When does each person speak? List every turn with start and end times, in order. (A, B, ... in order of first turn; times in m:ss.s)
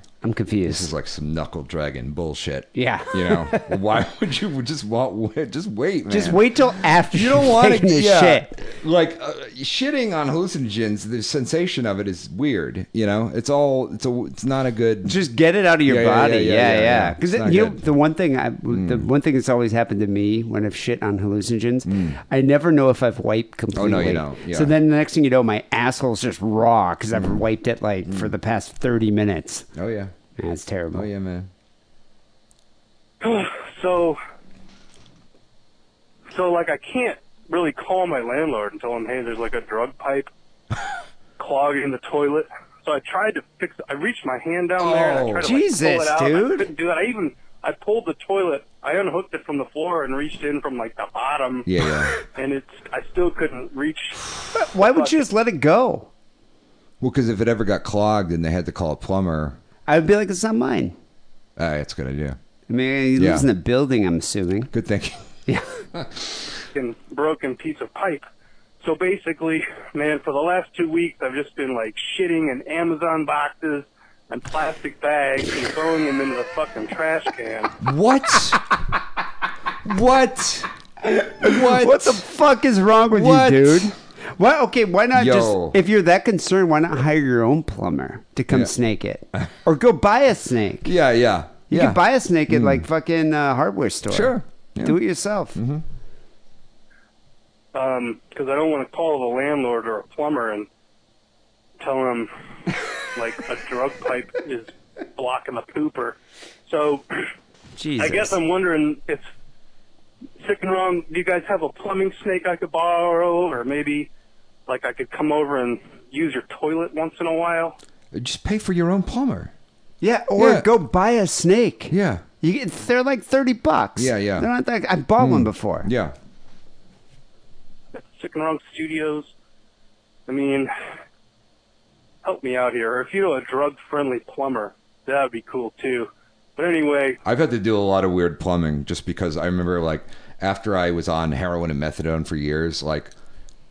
0:00.2-0:00.9 A
0:00.7-0:15.2 B
0:02.8-0:03.8 A
0:06.1-0:08.6 A
0:15.0-0:29.7 A
0:15.9-0:17.8 B
0:18.7-0:19.1 B
0:21.9-0:22.2 B
0:23.7-0:24.7 B
0:28.1-0:28.3 B
0:29.8-0:30.1 B
0:30.4-0:31.1 A
0:30.9-0:31.5 B
0:33.2-0:34.2 C
0:36.3-0:40.3 C
0:41.4-0:51.7 C
0:44.8-0:45.4 B
0:45.4-0:46.7 A
0:51.7-0:52.2 B
0:52.3-0:54.2 C
0:54.6-0:56.1 A
0:54.8-0:55.2 C
0:57.0-0:59.6 B
0:59.9-1:01.0 A
1:01.6-1:02.4 B
1:02.7-1:04.7 A
1:03.2-1:03.5 B
1:04.7-1:05.3 B
1:06.0-1:06.3 B
1:06.7-1:08.2 C
1:08.8-1:17.7 C
1:17.8-1:18.6 B
1:19.8-1:20.7 B
1:21.1-1:30.9 A
1:21.4-1:22.2 B
1:23.1-1:23.9 B
1:25.1-1:25.8 B
1:30.8-1:32.8 B
1:31.7-1:35.6 A
1:34.1-1:35.0 B
1:35.6-1:35.8 B
1:37.7-1:40.7 C
1:41.8-1:42.3 C
1:43.2-1:47.0 C
1:47.8-1:48.4 A
1:48.0-1:49.3 C
1:50.4-1:54.1 C
1:54.7-1:57.8 C
1:58.1-1:59.5 B
2:00.0-2:05.9 A
2:00.4-2:00.7 B
2:01.9-2:02.2 B
2:04.0-2:04.5 B
2:05.2-2:06.1 B
2:08.0-2:09.3 C
2:10.3-2:10.7 C
2:12.2-2:17.2 C
2:17.2-2:23.1 B